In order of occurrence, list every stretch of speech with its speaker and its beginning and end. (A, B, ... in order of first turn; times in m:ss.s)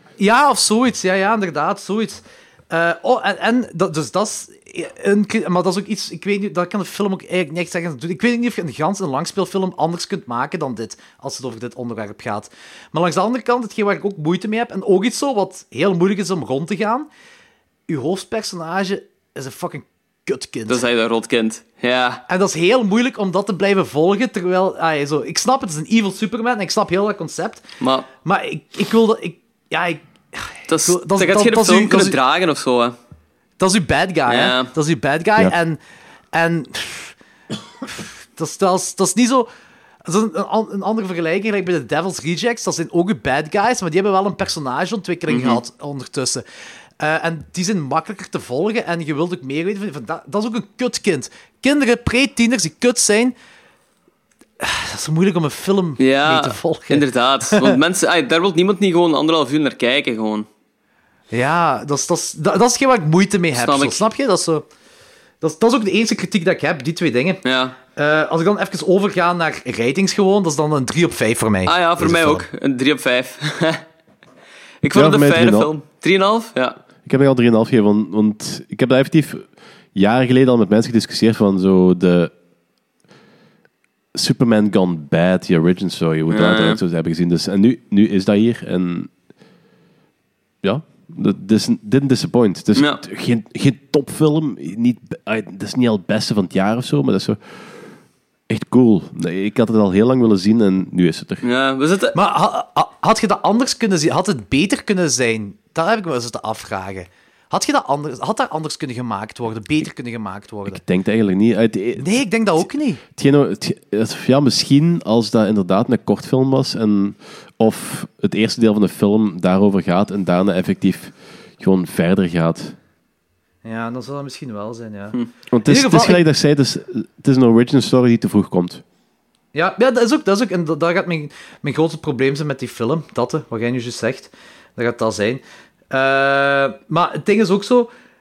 0:00.2-0:17.1 A
0:17.9-0:20.8 A
0:20.7-0:22.2 B
0:22.3-0:27.6 A
0:27.8-0:28.1 B
0:28.2-0:32.2 A
0:30.7-0:33.0 B
0:33.6-0:35.8 A
0:34.3-0:34.7 B
0:36.3-0:37.1 A
0:37.8-0:39.5 A
0:40.0-0:46.4 A
0:45.3-0:45.6 B
0:47.0-0:53.3 A
0:54.6-0:57.8 A
0:56.0-1:00.5 B
1:01.3-1:04.6 A
1:03.6-1:04.0 B
1:05.4-1:07.4 A
1:07.4-1:07.8 B
1:08.0-1:12.1 A
1:11.7-1:13.8 B
1:12.0-1:12.4 C
1:14.8-1:16.8 B
1:14.9-1:15.7 C
1:17.1-1:22.3 C
1:24.1-1:29.1 C
1:26.3-1:26.8 B
1:30.6-1:37.4 C
1:32.8-1:33.0 B
1:38.5-1:41.4 C
1:41.4-1:42.2 B
1:42.1-1:50.8 A
1:50.7-2:02.8 C
1:52.0-1:53.0 A
2:03.6-2:06.2 A
2:05.5-2:08.8 C
2:09.5-2:17.9 A